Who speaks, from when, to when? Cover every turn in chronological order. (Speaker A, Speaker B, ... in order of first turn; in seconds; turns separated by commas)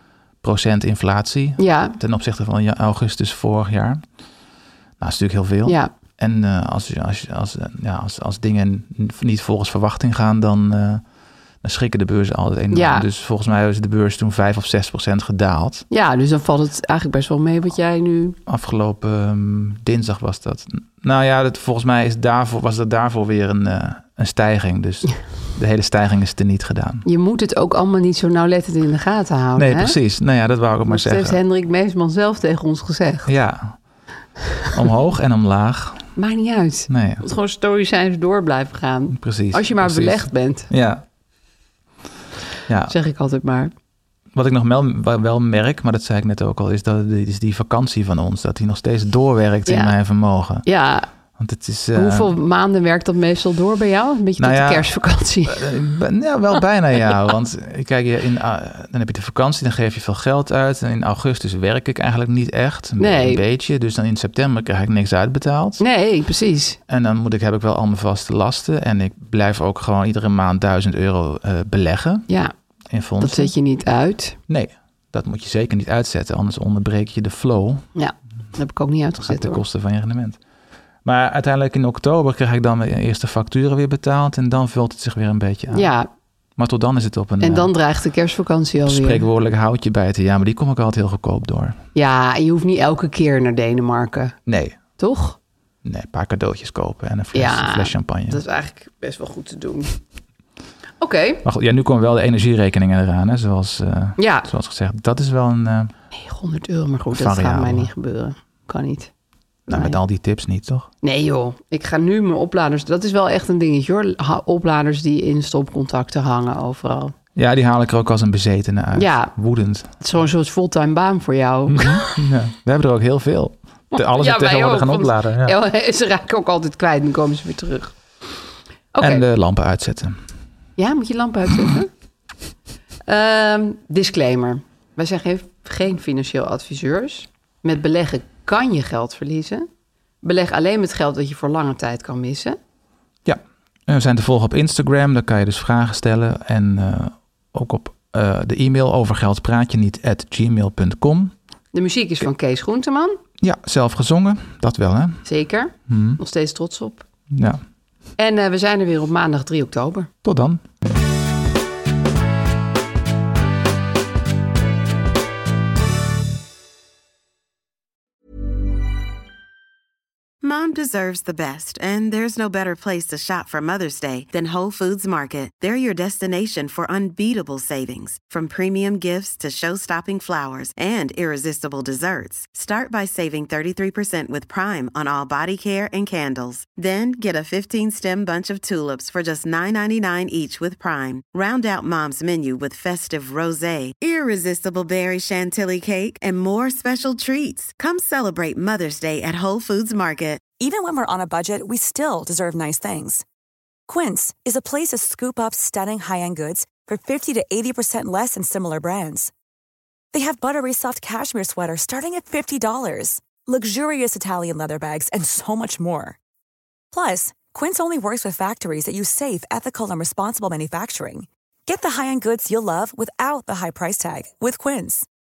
Speaker A: 0.4-4.0, Speaker B: 1.6-2.0, Speaker A: 5.0-11.0, Speaker B: 5.7-5.9, Speaker A: 11.6-15.8, Speaker B: 12.7-13.1, Speaker B: 15.9-18.4, Speaker A: 18.4-27.1, Speaker B: 27.1-29.9, Speaker A: 29.6-31.4, Speaker B: 30.9-33.3, Speaker A: 33.2-33.8, Speaker A: 34.7-36.1, Speaker B: 36.1-40.7, Speaker A: 36.9-37.2, Speaker A: 39.1-41.0, Speaker A: 42.7-42.9, Speaker B: 42.9-43.7, Speaker A: 44.3-50.6, Speaker B: 49.6-49.9, Speaker B: 50.6-51.1, Speaker A: 51.4-52.3, Speaker B: 51.9-55.7, Speaker A: 54.4-54.9, Speaker A: 55.5-65.8, Speaker B: 63.0-63.4, Speaker B: 65.8-66.8, Speaker A: 66.9-72.3, Speaker B: 72.3-72.5, Speaker A: 72.9-73.5, Speaker B: 73.2-74.4, Speaker A: 74.5-77.8, Speaker B: 77.9-79.6, Speaker A: 79.2-80.4, Speaker A: 81.0-85.9, Speaker B: 85.7-86.1, Speaker A: 86.6-87.7, Speaker B: 87.4-89.2, Speaker A: 88.8-91.8, Speaker B: 91.9-94.3, Speaker A: 94.5-94.8, Speaker B: 95.0-95.4, Speaker A: 95.8-98.4, Speaker B: 97.3-99.9, Speaker B: 101.0-101.5, Speaker A: 101.4-105.9, Speaker B: 104.2-104.5, Speaker B: 106.1-109.1, Speaker A: 107.1-107.9, Speaker A: 109.7-110.9, Speaker B: 109.7-110.0, Speaker B: 111.0-117.1, Speaker A: 117.3-119.9, Speaker B: 118.9-119.3, Speaker B: 120.0-122.3, Speaker A: 121.7-125.5, Speaker B: 123.9-127.9, Speaker B: 128.9-129.2, Speaker A: 129.0-130.2, Speaker B: 130.8-131.9, Speaker B: 133.1-139.7, Speaker B: 140.2-142.6, Speaker A: 143.2-151.3, Speaker B: 151.7-153.2, Speaker A: 153.4-155.2, Speaker B: 155.2-157.1, Speaker A: 155.9-156.2, Speaker A: 157.3-157.6, Speaker B: 158.2-160.1, Speaker A: 160.2-160.6, Speaker C: 170.4-200.4, Speaker D: 200.6-203.2, Speaker D: 203.9-209.3, Speaker D: 210.1-216.2, Speaker D: 216.9-225.1